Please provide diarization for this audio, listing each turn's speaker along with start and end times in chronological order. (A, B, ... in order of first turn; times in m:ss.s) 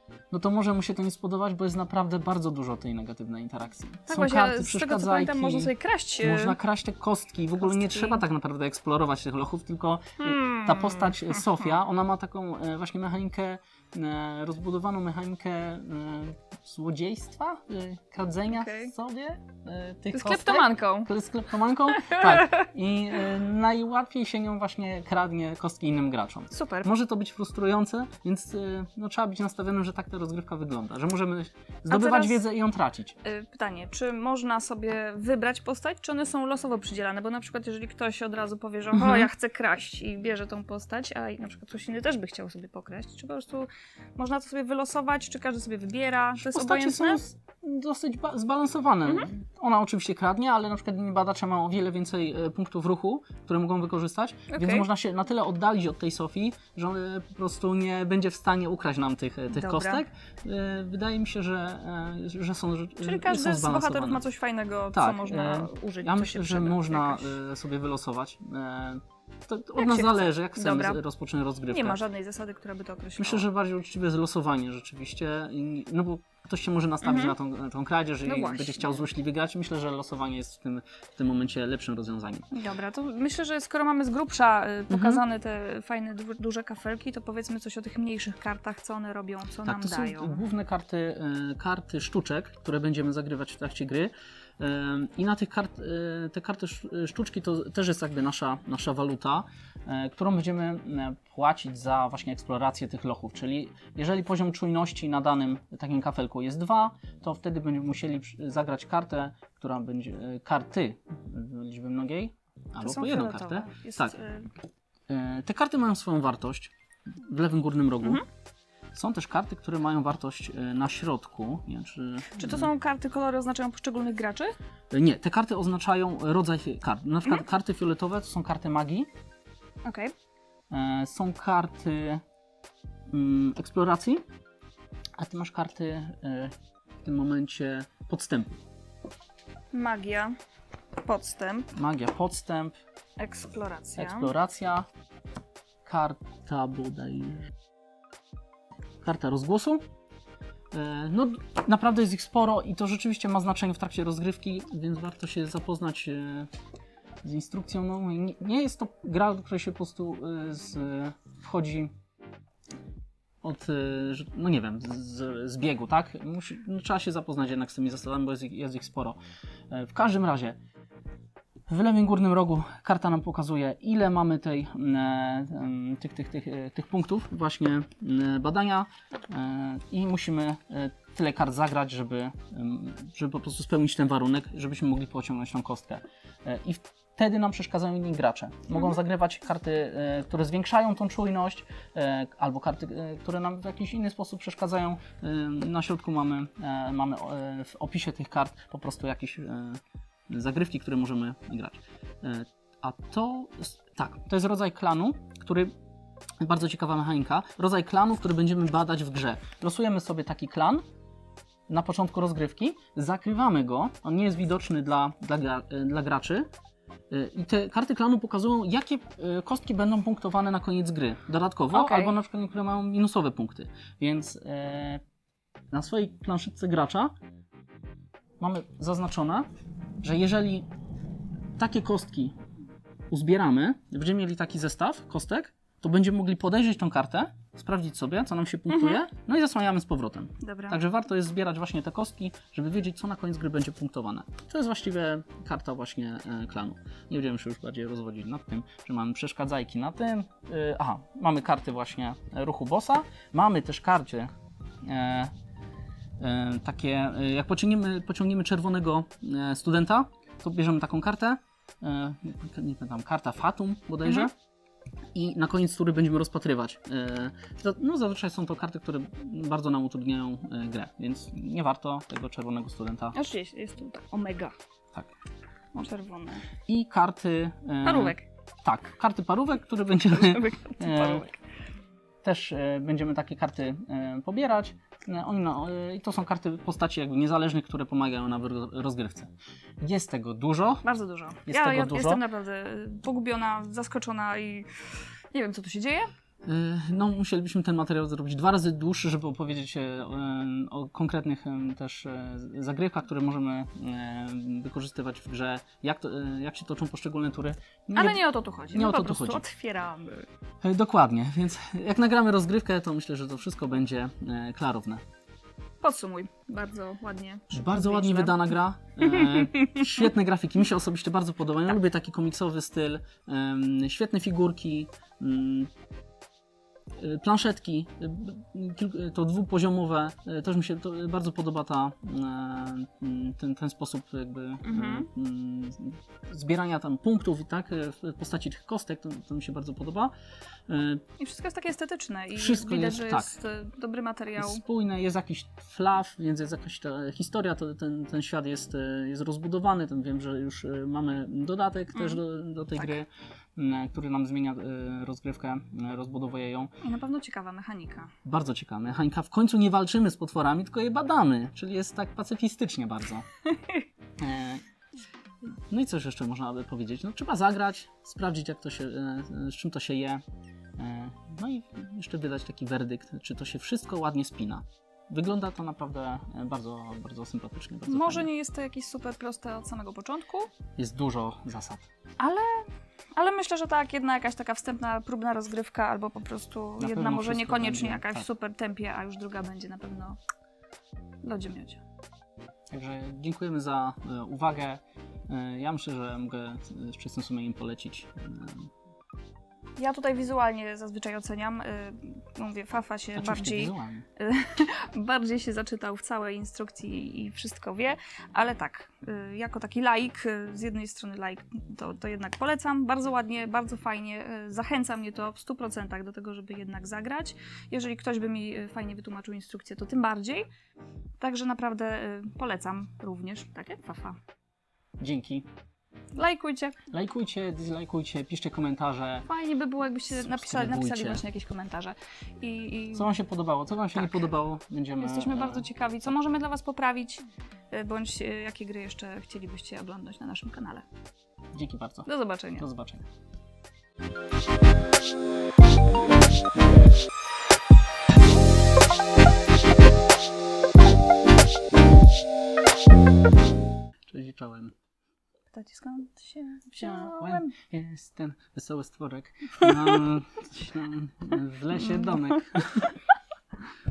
0:00.3-0:33.2 A
0:04.1-0:06.6 B
0:07.6-0:08.2 B
0:10.2-0:11.4 B
0:18.5-0:18.9 B
0:20.1-0:21.1 B
0:22.1-0:22.4 B
0:26.5-0:26.9 B
0:31.9-0:32.4 B
0:33.2-0:47.2 B
0:38.9-0:39.2 A
0:46.4-1:04.2 A
0:54.5-0:54.9 B
0:59.5-1:00.0 B
1:03.0-1:07.3 B
1:04.9-1:12.0 A
1:09.8-1:11.0 B
1:11.7-1:13.4 B
1:13.2-1:22.5 A
1:17.0-1:17.4 B
1:18.2-1:19.0 B
1:22.5-1:30.4 B
1:24.9-1:25.2 A
1:29.6-1:54.2 A
1:52.8-1:54.5 B
1:55.1-1:58.2 A
1:58.9-2:02.7 A
2:02.3-2:04.5 B
2:04.9-2:09.1 A
2:09.8-2:10.1 B
2:10.7-2:12.2 A
2:13.1-2:14.2 A
2:15.2-2:18.6 A
2:19.7-2:20.3 B
2:21.0-2:21.7 B
2:21.7-2:22.8 A
2:23.2-2:24.3 B
2:24.0-2:24.9 A
2:25.8-2:27.5 A
2:29.0-2:29.8 A
2:30.7-2:36.5 A
2:37.2-2:41.9 A
2:43.4-2:49.2 A
2:49.7-2:50.6 A
2:51.7-3:25.7 A
3:26.4-3:30.8 A
3:31.7-3:36.5 A
3:37.1-3:45.0 A
3:41.7-3:42.1 B
3:45.7-3:47.1 A
3:48.4-3:49.5 A
3:50.0-3:50.7 A
3:51.6-3:52.4 A
3:53.1-4:14.3 A
3:58.7-3:59.0 B
4:00.4-4:00.8 B
4:14.8-4:15.3 A
4:16.2-4:24.3 A
4:25.1-4:33.2 A
4:33.1-4:34.5 B
4:35.7-4:36.4 B
4:36.7-4:41.2 A
4:37.8-4:38.2 B
4:40.1-4:41.4 B
4:42.2-4:50.8 A
4:50.8-4:54.7 B
4:51.4-4:52.2 A
4:55.3-4:56.1 B
4:56.4-5:09.4 A
5:07.9-5:10.3 B
5:10.6-5:15.0 A
5:15.8-5:18.5 B
5:17.5-5:25.7 A
5:19.0-5:19.9 B
5:27.0-5:40.1 A
5:34.6-5:35.1 B
5:40.7-5:41.0 A
5:41.2-5:44.6 B
5:42.3-5:43.3 A
5:44.4-5:56.7 A
5:51.9-5:52.2 B
5:56.8-5:58.1 B
5:58.2-6:03.3 A
6:03.4-6:03.8 B
6:04.2-6:04.6 A
6:05.5-6:10.2 A
6:10.8-6:18.3 A
6:17.9-6:20.5 B
6:20.8-6:21.9 A
6:22.2-6:30.2 B
6:26.8-6:28.3 A
6:31.2-6:31.8 B
6:32.7-6:38.7 A
6:39.8-7:00.4 B
6:43.1-6:44.0 A
7:01.2-7:04.2 B
7:05.0-7:05.5 A
7:06.1-7:06.8 B
7:06.9-7:09.3 A
7:09.2-7:13.1 B
7:10.1-7:11.2 A
7:12.9-7:15.7 A
7:13.9-7:14.3 B
7:15.0-7:20.8 B
7:21.5-7:23.0 A
7:22.0-7:22.6 B
7:34.1-7:34.7 A
7:35.5-7:37.5 B
7:36.8-7:42.9 A
7:41.7-7:42.4 B